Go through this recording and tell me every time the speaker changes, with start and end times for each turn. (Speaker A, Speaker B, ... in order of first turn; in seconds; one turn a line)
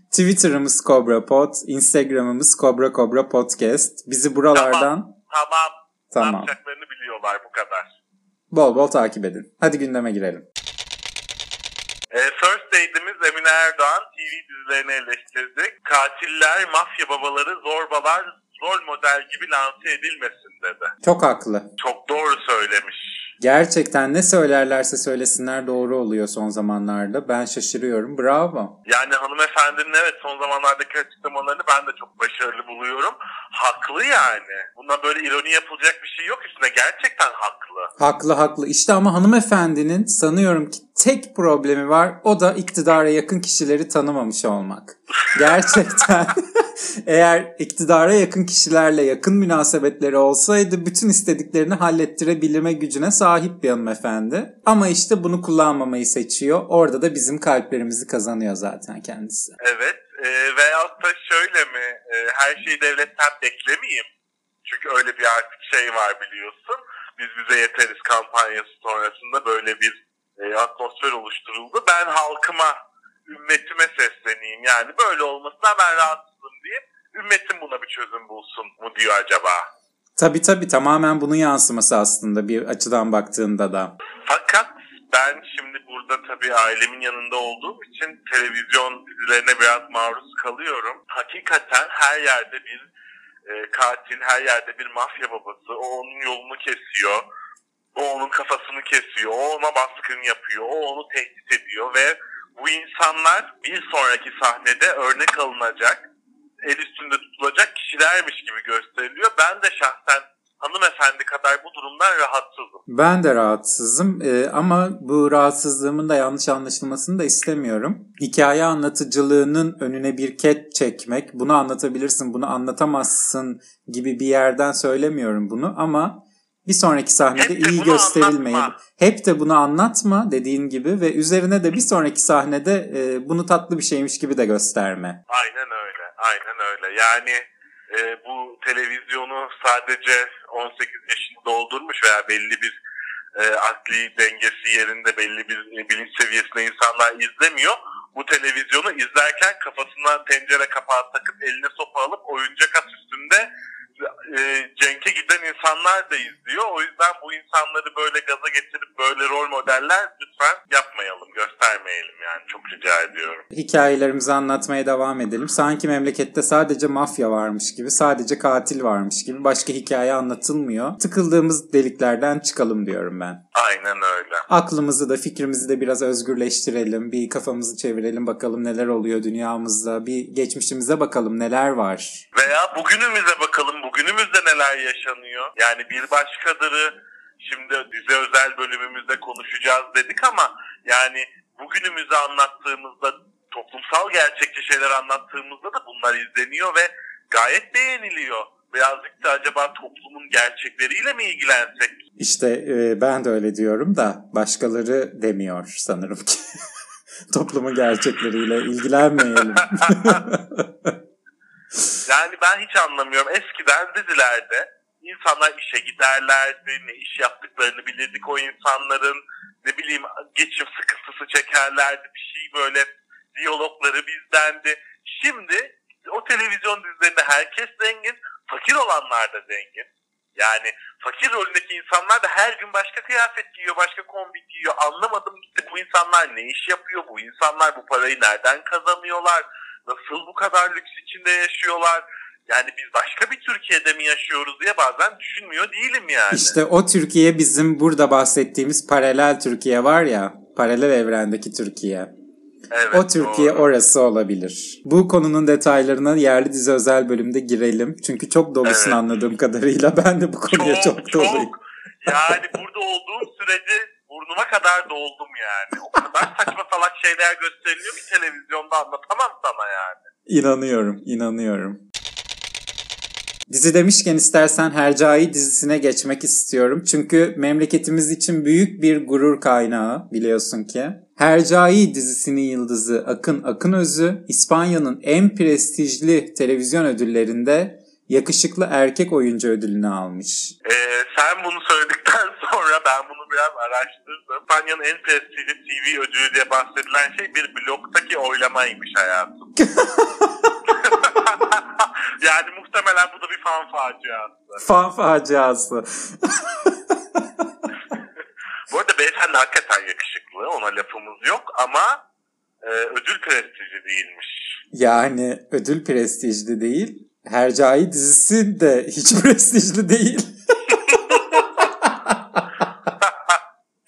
Speaker A: 0.1-5.1
Speaker B: 4.5-8.0
Speaker A: 6.1-6.5
Speaker A: 8.5-10.4
Speaker B: 12.1-20.9
Speaker A: 21.0-21.7
Speaker B: 21.8-23.3
Speaker A: 23.4-28.8
Speaker B: 28.9-37.9
Speaker A: 38.0-59.5
Speaker B: 59.6-64.1
Speaker B: 64.6-79.7
Speaker A: 80.2-83.9
Speaker B: 84.3-92.9
Speaker B: 93.5-97.2
Speaker B: 98.0-106.0
Speaker B: 106.6-112.8
Speaker A: 112.9-135.2
Speaker B: 127.4-128.8
Speaker B: 135.3-142.8
Speaker B: 143.4-153.5
Speaker B: 154.0-163.4
Speaker A: 163.5-173.4
Speaker B: 173.5-174.4
Speaker A: 174.5-182.2
Speaker B: 182.3-202.0
Speaker A: 202.2-206.7
Speaker A: 207.3-210.9
Speaker B: 209.4-210.2
Speaker B: 212.0-246.6
Speaker A: 246.3-252.1
Speaker B: 252.7-253.7
Speaker A: 252.9-261.5
Speaker B: 258.6-259.0
Speaker B: 260.5-270.1
Speaker A: 262.1-262.4
Speaker A: 270.3-271.8
Speaker A: 273.5-290.5
Speaker B: 290.6-299.5
Speaker A: 299.6-300.5
Speaker B: 300.7-304.6
Speaker A: 304.6-307.2
Speaker B: 308.7-312.0
Speaker B: 312.6-314.6
Speaker A: 314.7-322.5
Speaker B: 320.7-321.3
Speaker B: 323.0-323.3